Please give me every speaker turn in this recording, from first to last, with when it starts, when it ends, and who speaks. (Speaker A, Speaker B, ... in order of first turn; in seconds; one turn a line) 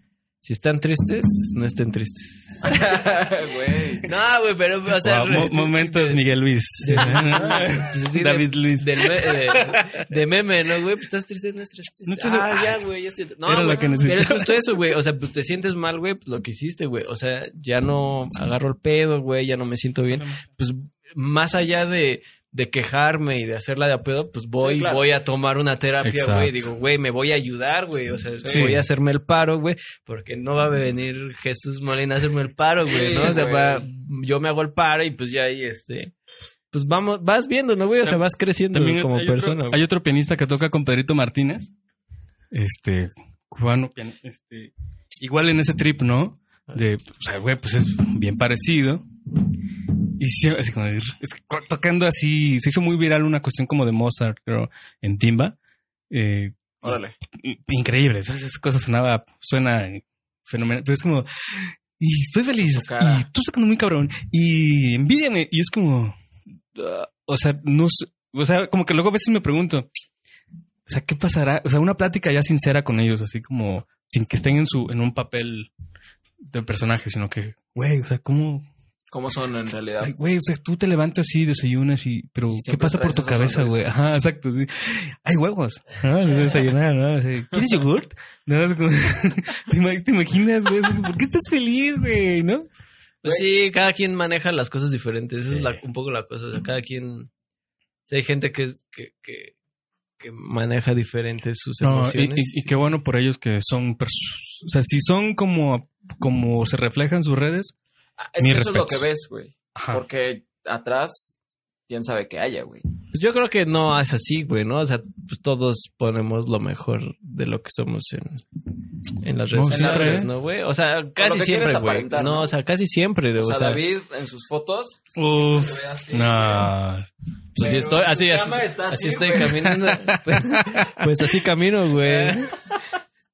Speaker A: 0.4-3.0
Speaker B: 2.6-4.1
Speaker A: 4.0-6.2
Speaker C: 5.0-10.1
Speaker A: 6.8-36.1
Speaker C: 12.1-12.8
Speaker C: 13.5-14.7
Speaker B: 24.6-25.0
Speaker C: 26.0-26.6
Speaker B: 28.4-28.7
Speaker C: 28.5-28.8
Speaker B: 32.9-33.9
Speaker A: 36.7-39.8
Speaker C: 38.0-41.7
Speaker C: 42.5-49.0
Speaker C: 49.9-55.6
Speaker C: 56.1-66.2
Speaker B: 56.8-57.2
Speaker B: 62.6-63.3
Speaker C: 66.7-69.9
Speaker C: 70.9-75.7
Speaker C: 76.5-78.7
Speaker B: 79.1-80.2
Speaker C: 80.0-92.7
Speaker B: 82.5-83.9
Speaker A: 93.2-97.3
Speaker A: 98.1-99.5
Speaker A: 100.2-102.7
Speaker C: 101.8-107.7
Speaker B: 108.2-111.4
Speaker C: 108.4-109.0
Speaker C: 109.8-110.0
Speaker B: 111.9-112.8
Speaker A: 113.1-118.4
Speaker A: 119.2-123.8
Speaker C: 119.5-120.3
Speaker B: 119.7-120.3
Speaker B: 121.2-122.5
Speaker B: 123.4-126.7
Speaker C: 125.2-127.1
Speaker A: 127.6-132.6
Speaker B: 127.6-130.0
Speaker C: 130.1-131.1
Speaker B: 132.1-132.8